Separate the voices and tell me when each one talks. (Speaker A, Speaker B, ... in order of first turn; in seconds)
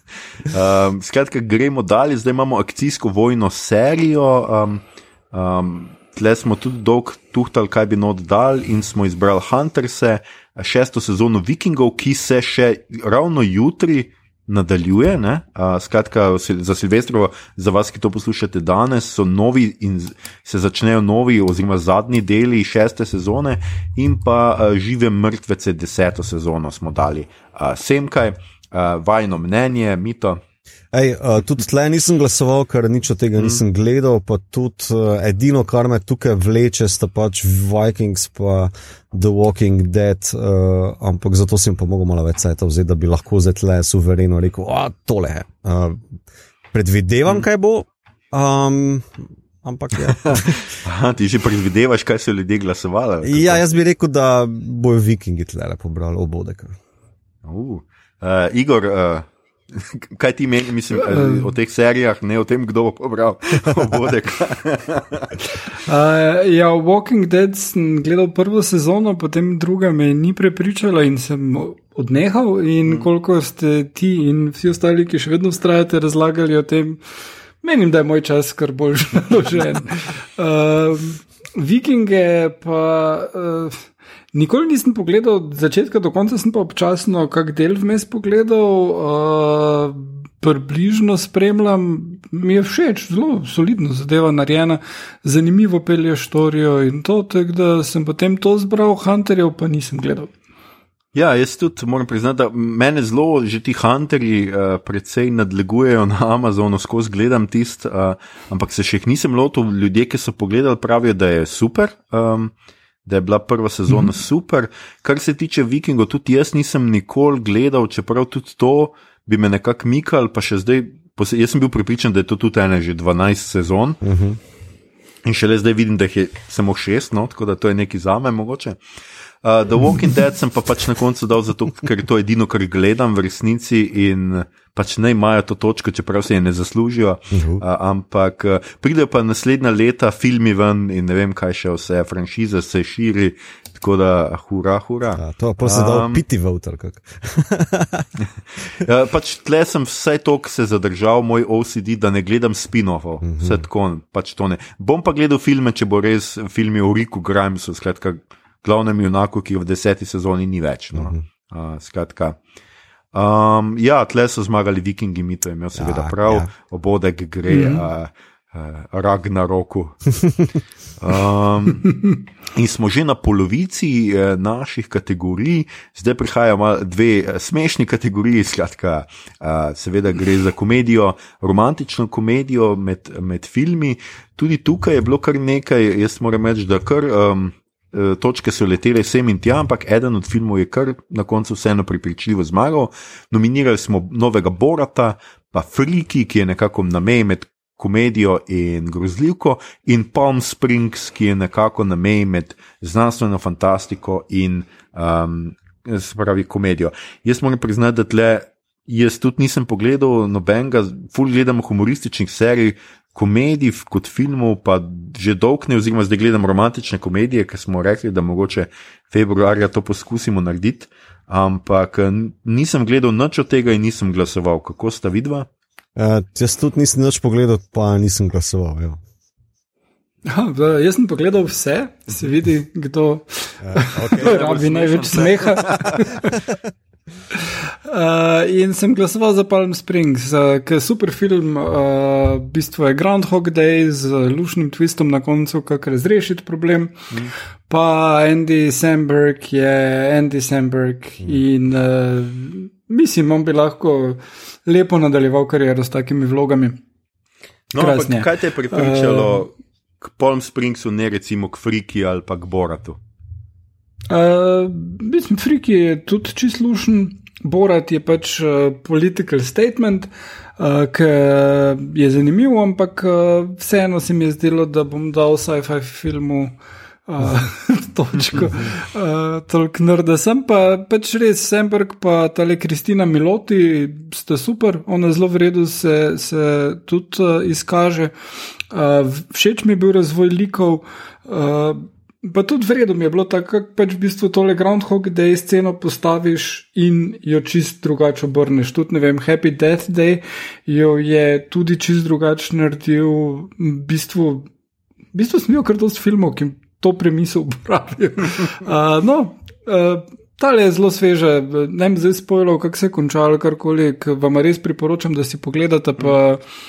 Speaker A: 0.4-30.4, 50.0-53.6, 57.4-65.4, 101.1-112.5, 113.0-124.0, 125.2-128.8, 129.4-146.2, 148.2-162.4, 163.1-170.1, 171.0-171.9, 172.6-225.5, 234.2-236.1, 257.7-263.0
Speaker B: 30.9-46.0, 46.7-50.6, 53.2-56.8, 124.0-124.4, 137.3-137.6, 145.2-148.1, 153.2-153.6, 160.9-161.2, 165.8-166.5, 225.9-229.0, 233.6-234.3
Speaker C: 60.9-61.5, 65.8-77.0, 77.6-100.3, 167.5-167.9, 230.3-236.4, 237.3-247.1, 247.7-256.8, 257.8-259.5, 264.1-288.1, 288.7-304.5, 305.1-316.4